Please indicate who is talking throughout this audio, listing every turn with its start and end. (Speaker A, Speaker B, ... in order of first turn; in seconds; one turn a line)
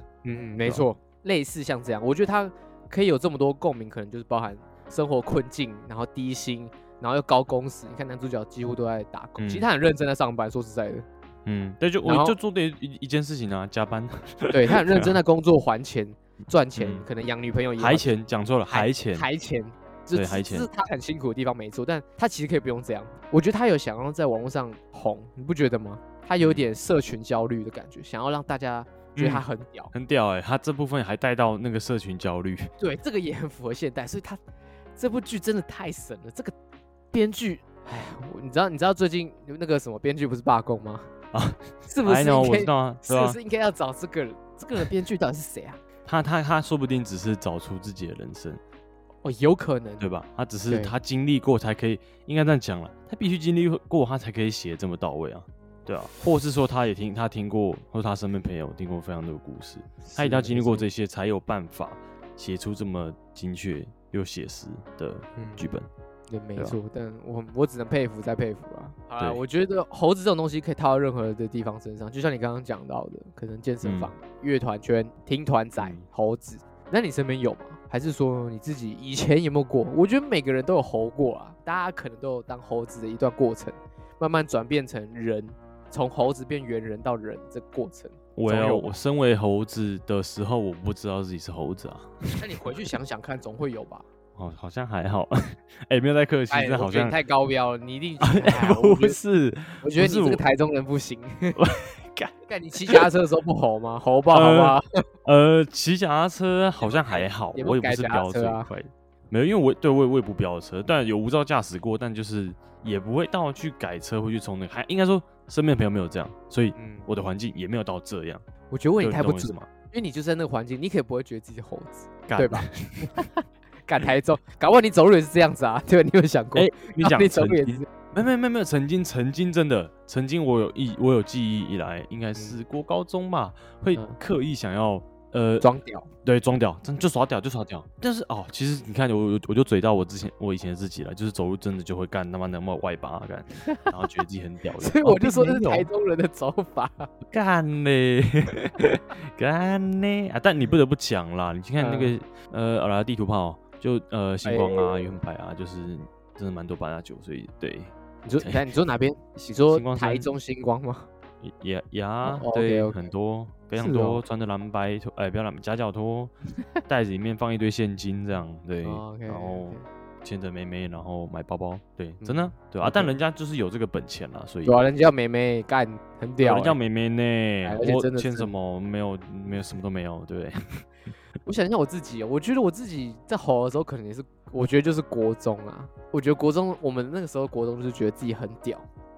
Speaker A: 0.2-11.1
Speaker B: 9.4-9.7
Speaker B: 11.5-15.2
Speaker A: 12.1-12.4
Speaker A: 14.5-18.1
Speaker B: 16.8-17.1
Speaker B: 17.8-19.3
Speaker A: 18.7-29.9
Speaker B: 20.1-20.7
Speaker B: 26.4-26.7
Speaker B: 29.2-32.7
Speaker A: 32.8-34.4
Speaker A: 35.0-36.5
Speaker A: 37.1-41.1
Speaker B: 41.3-43.4
Speaker A: 41.9-45.8
Speaker B: 46.1-48.6
Speaker A: 49.2-50.1
Speaker B: 50.0-65.9
Speaker A: 50.7-50.9
Speaker A: 60.0-60.9
Speaker A: 65.4-65.8
Speaker A: 66.3-89.0
Speaker B: 73.8-74.1
Speaker B: 75.8-76.0
Speaker B: 88.4-92.2
Speaker A: 92.4-94.1
Speaker B: 94.4-97.2
Speaker A: 96.5-99.2
Speaker B: 98.2-100.4
Speaker A: 99.8-101.7
Speaker B: 101.6-102.3
Speaker A: 102.5-104.8
Speaker B: 104.3-118.5
Speaker A: 106.8-108.7
Speaker A: 116.8-117.1
Speaker A: 118.7-123.3
Speaker B: 119.0-119.7
Speaker B: 122.3-123.2
Speaker A: 123.9-127.9
Speaker B: 126.5-135.7
Speaker A: 133.9-134.2
Speaker A: 135.6-136.1
Speaker B: 136.2-145.9
Speaker A: 143.6-143.9
Speaker A: 144.8-147.1
Speaker B: 147.3-158.7
Speaker A: 151.8-152.1
Speaker A: 154.4-155.2
Speaker A: 158.2-161.1
Speaker B: 159.4-160.3
Speaker B: 161.4-166.3
Speaker A: 162.3-163.1
Speaker A: 163.8-164.2
Speaker B: 166.9-174.8
Speaker A: 168.8-169.9
Speaker A: 172.2-173.2
Speaker A: 174.7-176.8
Speaker B: 176.4-180.8
Speaker A: 177.6-178.5
Speaker A: 181.4-188.9